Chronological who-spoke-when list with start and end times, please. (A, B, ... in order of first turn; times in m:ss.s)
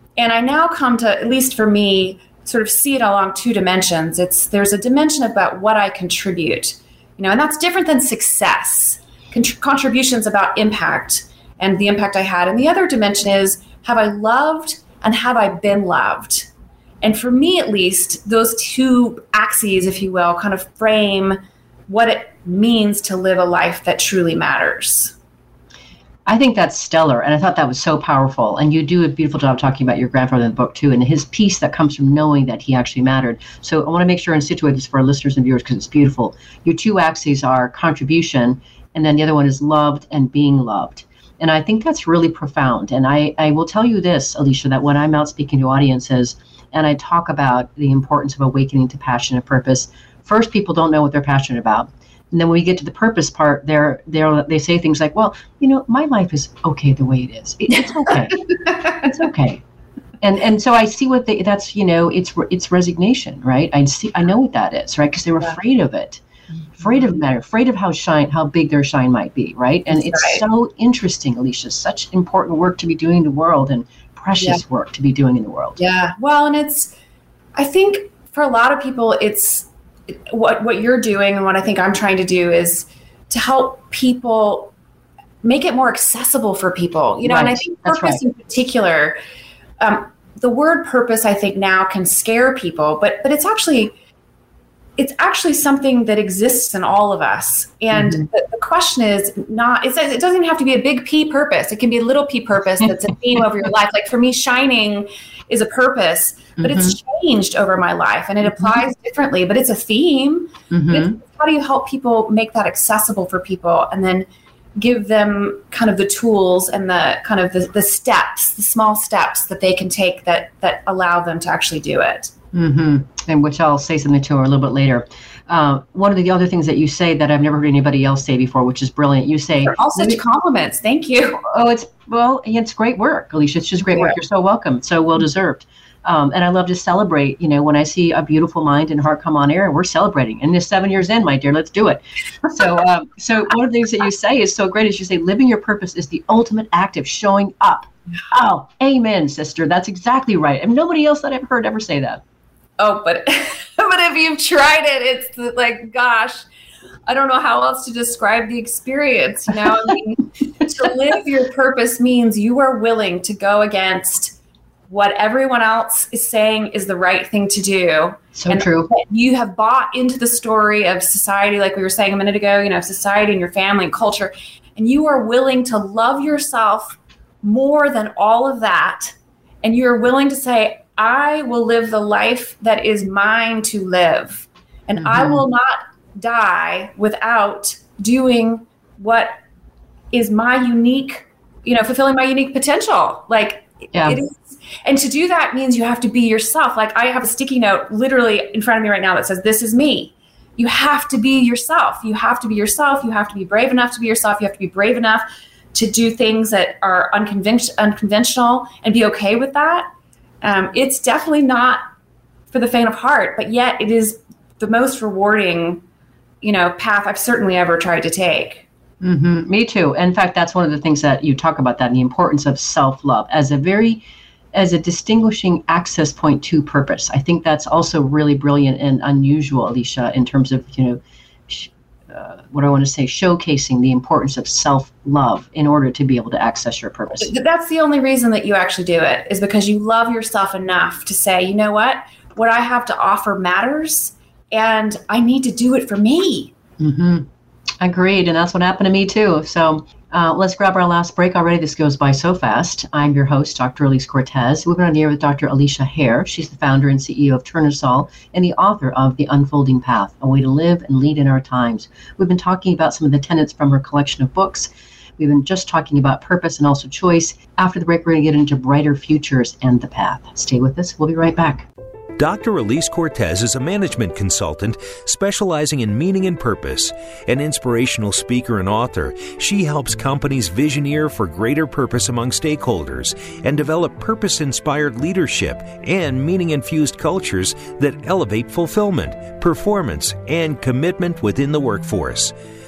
0:00.2-0:16.5 A
0:17.0-0:25.1 A
0:26.2-0:59.6 B
1:00.2-1:06.2 B
1:06.8-1:15.8 B
1:09.9-1:10.4 A
1:14.4-1:14.6 A
1:15.8-1:16.9 A
1:17.6-1:19.7 A
1:20.3-1:24.7 A
1:25.4-1:29.2 A
1:27.2-1:28.2 B
1:29.8-1:33.9 A
1:35.0-2:02.3 A
1:37.9-1:38.2 B
1:46.6-1:47.0 B
1:50.7-1:51.2 B
2:02.5-2:10.2 B
2:09.6-2:11.4 A
2:11.4-2:32.2 B
2:32.8-2:36.4 A
2:37.1-2:44.3 A
2:44.9-3:09.4 A
2:48.3-2:48.9 B
3:05.0-3:05.4 B
3:10.1-3:29.9 A
3:13.9-3:14.2 B
3:30.4-3:31.8 A
3:32.5-3:35.8 A
3:36.4-3:38.6 A
3:39.0-3:57.3 B
3:57.2-4:06.5 A
4:06.8-4:07.3 B
4:07.8-4:31.7 B
4:32.2-4:52.3 C